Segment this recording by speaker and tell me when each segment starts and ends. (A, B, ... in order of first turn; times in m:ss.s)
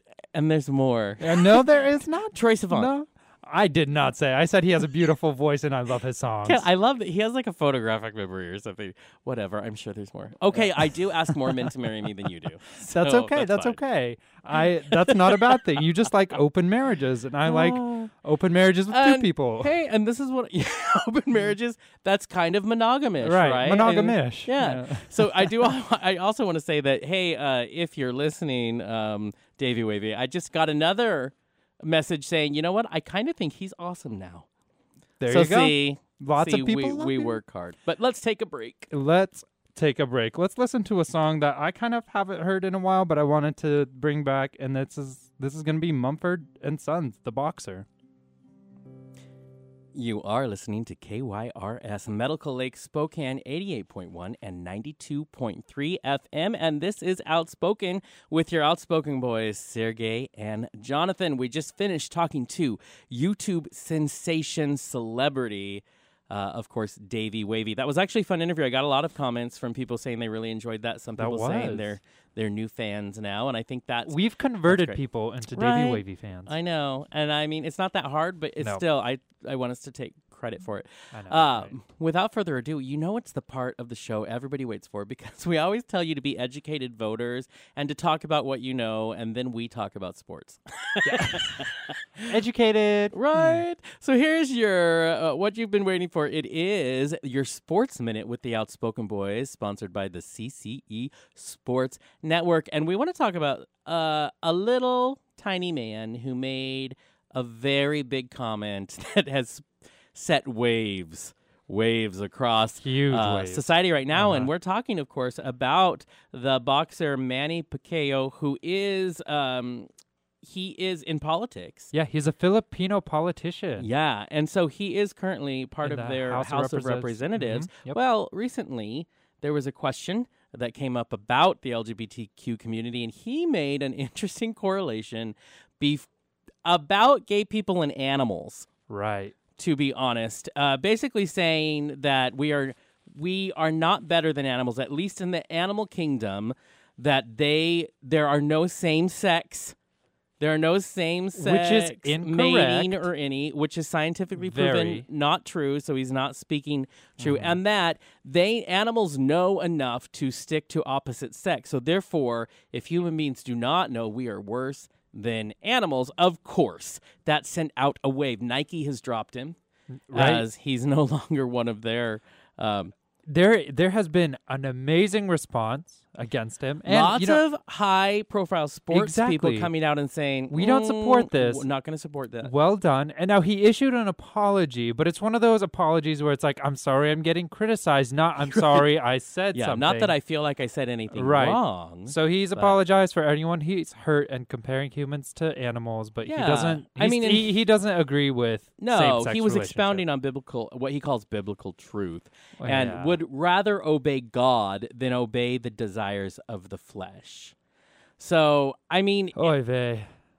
0:00.3-0:01.6 A
0:01.2-0:06.7 B
0:02.3-0:02.9 A
0:06.4-0:13.8 A
0:10.5-0:11.7 B
0:12.8-0:19.7 B
0:14.9-0:15.5 A
0:17.4-0:18.1 A
0:18.9-0:34.4 A
0:23.2-0:25.7 B
0:35.2-0:37.4 B
0:35.2-0:38.9 A
0:38.9-0:47.8 B
0:49.9-1:15.0 A
1:11.2-1:11.9 B
1:14.1-1:16.5 B
1:15.5-1:32.3 A
1:21.1-1:21.8 B
1:31.0-1:31.6 B
1:32.3-1:33.6 B
1:33.1-1:59.9 A
1:52.8-1:53.6 B
1:54.2-1:54.5 B
2:00.4-2:01.9 A
2:01.9-2:03.9 B
2:03.8-2:16.1 A
2:05.8-2:08.0 B
2:16.6-2:18.7 A
2:18.9-2:19.3 B
2:19.6-2:29.8 A
2:30.4-2:49.6 A
2:31.4-2:33.0 B
2:34.4-2:35.0 B
2:37.2-2:37.6 B
2:50.1-2:50.4 B
2:50.1-2:52.9 A
2:53.3-2:57.4 B
2:56.8-3:02.5 A
2:58.9-2:59.7 B
3:00.5-3:01.6 B
3:02.4-3:10.1 B
3:08.5-3:08.8 A
3:09.5-3:12.8 A
3:11.1-3:20.0 B
3:16.3-3:17.5 A
3:18.8-3:27.5 A
3:22.6-3:23.2 B
3:28.2-3:29.5 A
3:29.4-3:30.1 B